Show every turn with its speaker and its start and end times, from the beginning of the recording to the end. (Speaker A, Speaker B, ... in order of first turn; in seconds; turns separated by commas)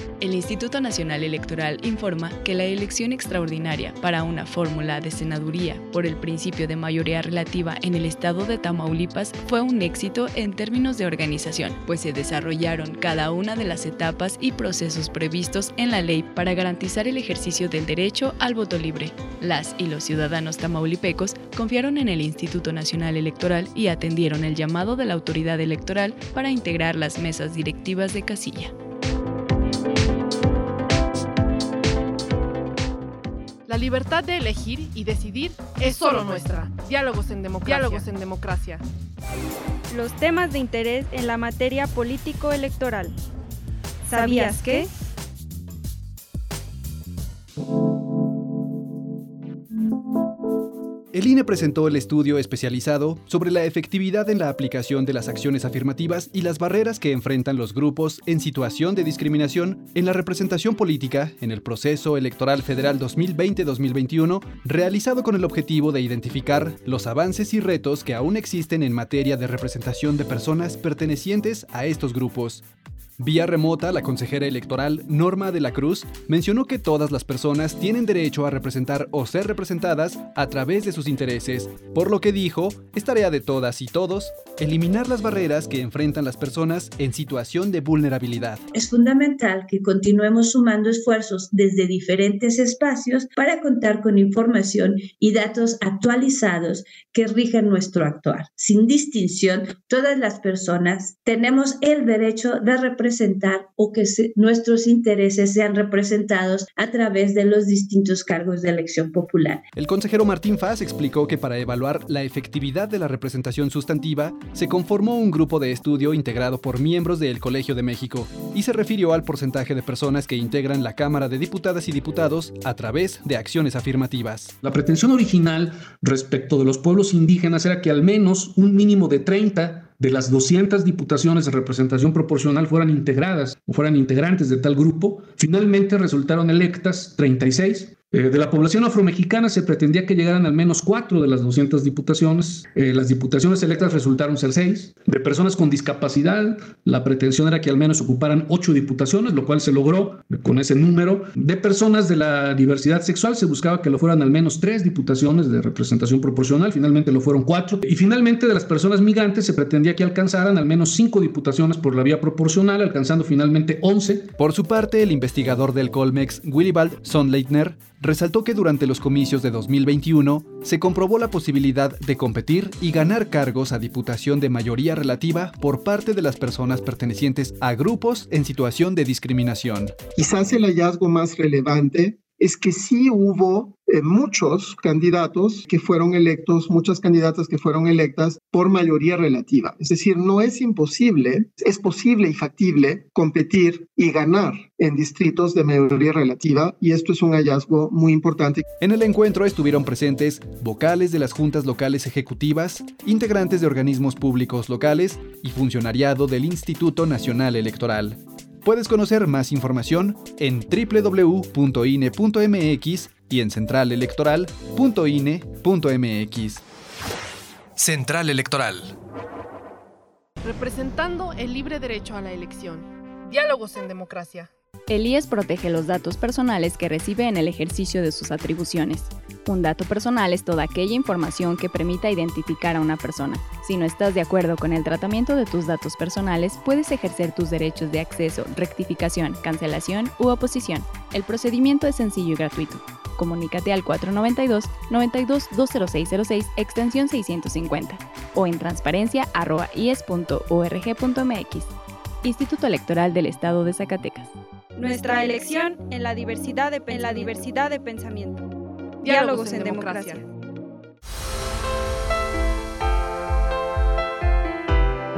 Speaker A: 0.2-28.7, Speaker B: 33.7-38.8, Speaker C: 37.6-38.0, Speaker C: 39.9-43.1, Speaker C: 44.0-44.9, Speaker D: 51.1-72.6, Speaker D: 73.2-88.6, Speaker E: 88.7-109.6, Speaker D: 109.7-124.5, Speaker F: 124.6-164.3, Speaker D: 164.4-180.0, Speaker G: 180.1-198.6, Speaker D: 198.8-216.6, Speaker D: 217.8-218.9, Speaker B: 220.4-224.5, Speaker A: 224.9-254.3, Speaker C: 254.8-258.4, Speaker B: 259.0-260.2, Speaker C: 259.1-260.2